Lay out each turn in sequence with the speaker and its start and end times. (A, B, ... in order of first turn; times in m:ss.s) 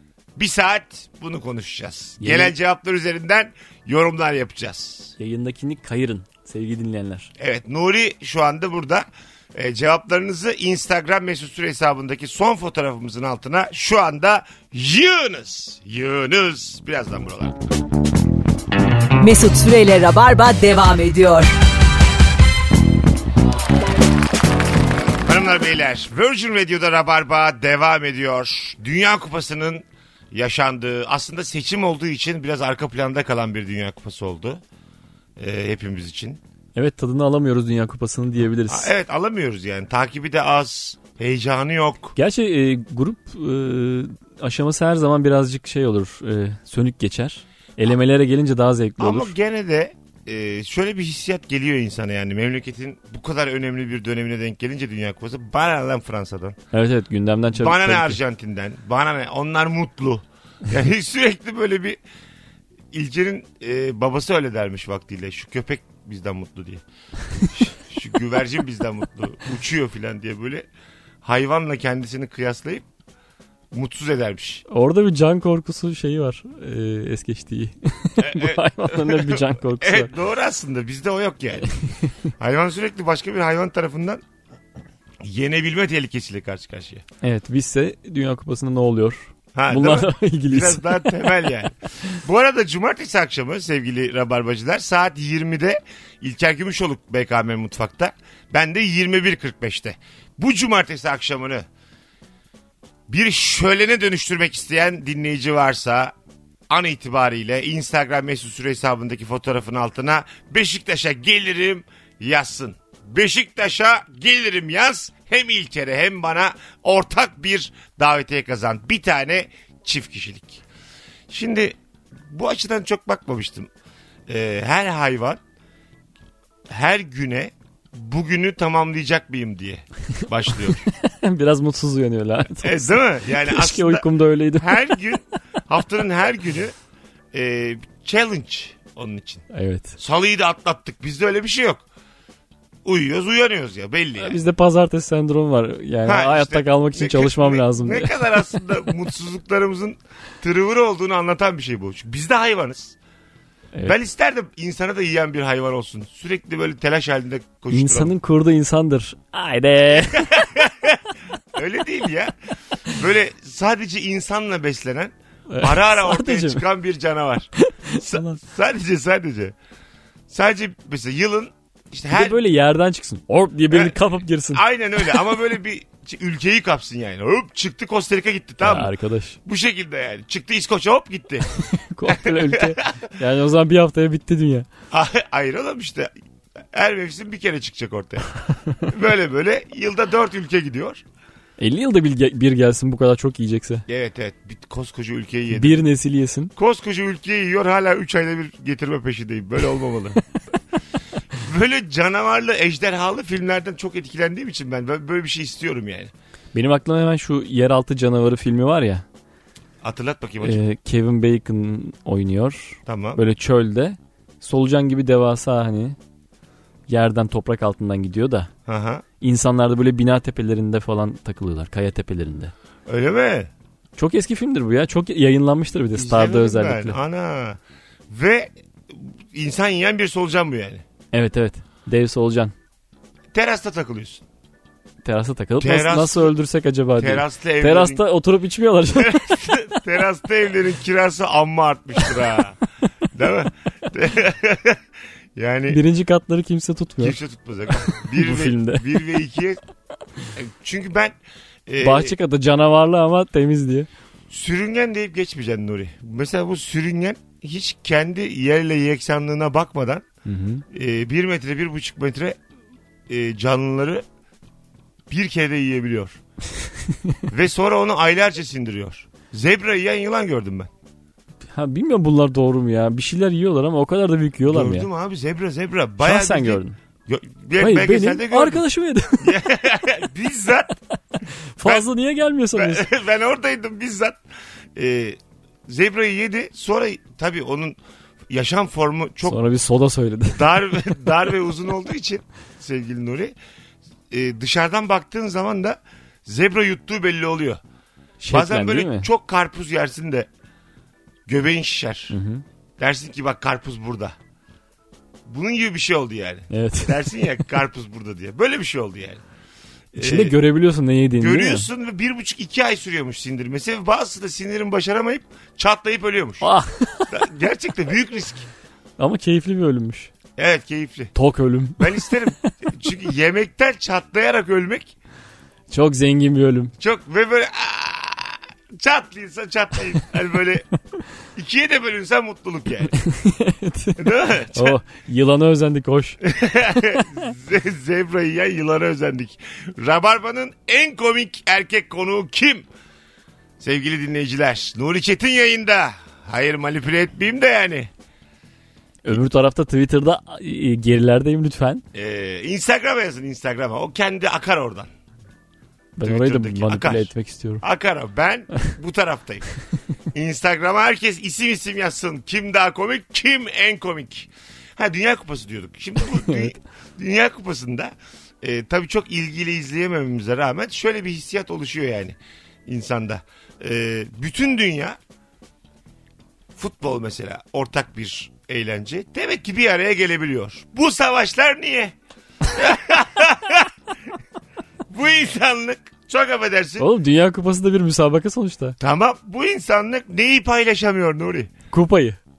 0:00.4-0:05.1 A
0:02.2-0:02.5 B
0:05.2-0:07.3 B
0:07.4-0:17.6 A
0:19.2-0:21.5 C
0:25.2-0:34.6 A
0:35.4-0:36.4 A
0:36.8-0:38.9 B
0:38.7-0:42.1 A
0:42.1-0:49.3 B
0:49.0-0:56.6 A
0:56.7-0:58.2 B
0:57.5-1:02.0 A
1:02.9-1:06.8 A
1:07.5-1:10.7 A
1:11.2-1:12.8 A
1:13.7-1:14.6 A
1:14.7-1:20.1 B
1:18.2-1:21.8 A
1:21.8-1:22.1 B
1:22.4-1:24.2 A
1:25.2-1:27.0 A
1:27.2-1:31.4 B
1:29.5-1:41.6 A
1:43.1-1:46.1 A
1:46.7-2:00.6 A
2:01.3-2:03.7 A
2:04.3-2:05.4 A
2:06.7-2:10.9 A
2:10.9-2:15.0 B
2:12.5-2:14.1 A
2:14.6-2:16.7 A
2:17.3-2:19.4 A
2:19.5-2:20.0 B
2:20.0-2:21.8 A
2:22.8-2:24.4 A
2:24.2-2:28.5 B
2:26.0-2:33.0 A
2:33.8-2:38.1 A
2:37.7-2:40.4 B
2:39.9-2:42.3 A
2:42.9-2:49.5 A
2:45.5-2:46.6 B
2:47.6-2:48.4 B
2:50.3-2:52.4 A
2:52.1-2:55.3 B
2:53.7-2:54.0 A
2:54.5-2:58.9 A
2:58.6-2:59.4 B
2:59.4-3:01.5 A
3:01.5-3:04.7 B
3:02.1-3:02.9 A
3:04.9-3:06.1 A
3:06.7-3:08.3 A
3:08.8-3:11.0 A
3:11.6-3:13.8 B
3:13.9-3:15.8 A
3:15.5-3:16.5 B
3:16.6-3:20.2 A
3:21.3-3:26.1 A
3:26.5-3:29.0 B
3:29.8-3:30.6 A
3:30.4-3:36.0 B
3:32.8-3:33.2 A
3:36.9-3:38.5 B
3:38.7-3:39.0 A
3:39.2-3:42.5 B
3:42.9-3:43.5 A
3:44.0-3:47.0 B
3:45.9-3:50.8 A
3:51.1-3:52.5 B
3:53.3-3:54.2 A
3:55.0-3:59.5 B
3:55.6-3:56.3 A
3:57.0-3:58.0 A
3:58.9-4:02.6 A
4:03.1-4:04.8 A
4:05.4-4:05.8 A
4:05.7-4:07.2 B
4:07.0-4:09.6 A
4:07.8-4:09.0 B
4:10.3-4:12.1 A
4:11.8-4:13.9 B
4:14.3-4:20.0 A
4:20.2-4:20.6 B
4:20.7-4:22.4 A
4:23.1-4:24.0 A
4:25.1-4:26.2 A
4:27.3-4:30.7 A
4:31.5-4:34.9 B
4:34.4-4:38.6 A
4:36.0-4:36.8 B
4:37.6-4:39.4 B
4:39.2-4:40.7 A
4:41.5-4:42.9 B
4:42.6-4:44.2 A
4:44.7-4:47.8 A
4:48.3-4:49.4 A
4:49.2-4:50.6 B
4:50.3-4:53.3 A
4:54.1-4:57.6 A
4:58.2-4:59.1 B
4:58.3-5:00.3 A
5:01.3-5:02.1 A
5:02.1-5:02.4 B
5:02.8-5:04.2 A
5:05.2-5:09.2 A
5:06.5-5:07.1 B
5:09.9-5:10.4 A
5:10.0-5:11.7 B
5:11.2-5:16.5 A
5:16.4-5:17.1 B
5:17.1-5:18.5 A
5:19.0-5:20.1 B
5:20.4-5:21.1 A
5:21.1-5:22.5 B
5:21.8-5:24.9 A
5:25.7-5:26.7 B
5:26.8-5:30.6 A
5:31.3-5:32.9 A
5:32.9-5:36.2 B
5:34.0-5:34.8 A
5:36.2-5:42.7 A
5:43.6-5:47.9 A
5:49.0-5:51.8 B
5:51.9-5:54.9 A
5:56.0-5:57.6 B
5:56.0-5:57.1 A
5:57.6-5:59.4 A
6:00.1-6:15.0 A
6:06.0-6:06.5 B
6:16.5-6:23.7 A
6:24.9-6:26.9 A
6:26.8-6:28.8 B
6:28.8-6:31.5 A
6:31.7-6:32.2 B